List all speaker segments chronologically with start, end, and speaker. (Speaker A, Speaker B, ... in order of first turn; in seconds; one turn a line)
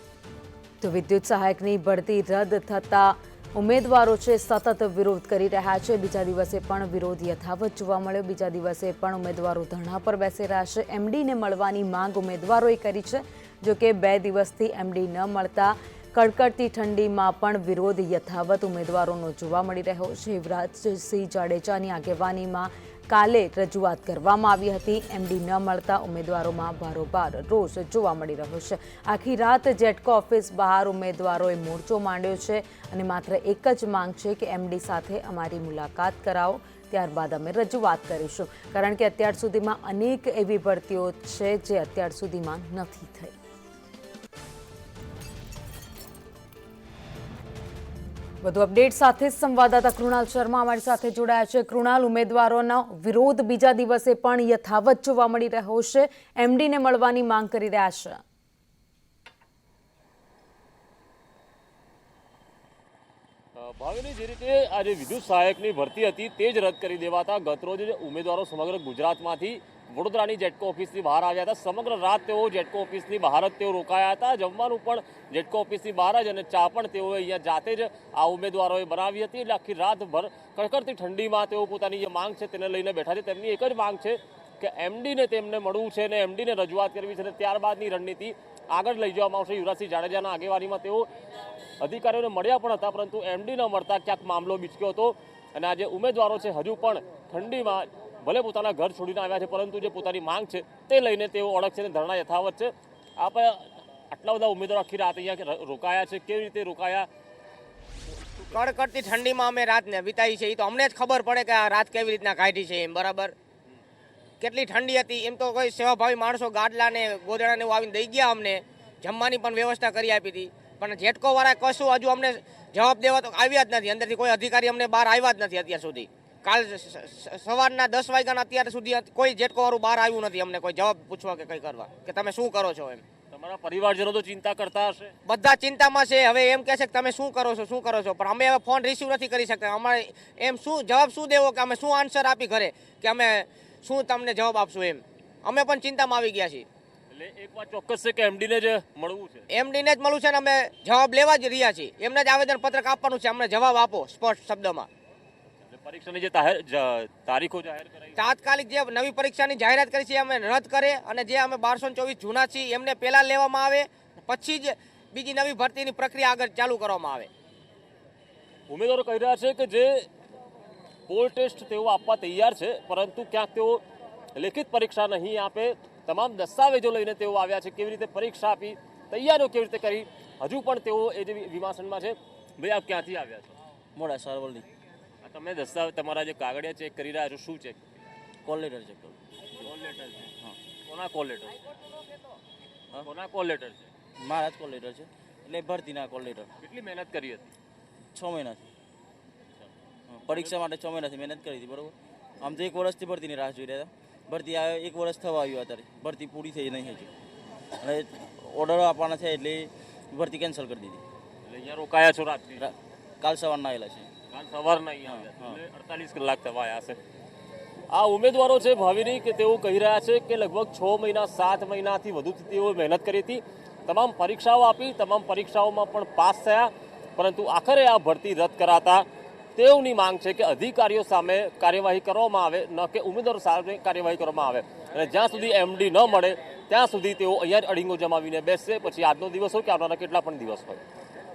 Speaker A: 0.8-43.3
Speaker A: 48.4-58.2
Speaker B: 63.5-91.1
Speaker B: 91.8-107.1
Speaker C: 108.5-113.3
Speaker C: 114.4-133.0
Speaker B: 133.3-135.1
Speaker C: 135.2-146.7
Speaker B: 147.1-149.4
Speaker C: 149.5-154.9
Speaker B: 155.7-158.2
Speaker C: 158.2-167.3
Speaker B: 168.7-170.1
Speaker B: 171.1-173.8
Speaker B: 174.3-183.5
Speaker D: 183.9-184.7
Speaker B: 185.2-187.8
Speaker D: 188.4-189.3
Speaker B: 189.6-190.2
Speaker D: 190.2-190.6
Speaker B: 190.9-191.6
Speaker B: 193.0-193.9
Speaker D: 194.2-196.5
Speaker B: 196.6-197.4
Speaker D: 198.1-198.7
Speaker D: 200.1-207.1
Speaker D: 207.7-211.0
Speaker B: 211.4-212.7
Speaker D: 212.6-214.1
Speaker B: 214.3-217.0
Speaker D: 215.1-215.6
Speaker B: 217.9-240.8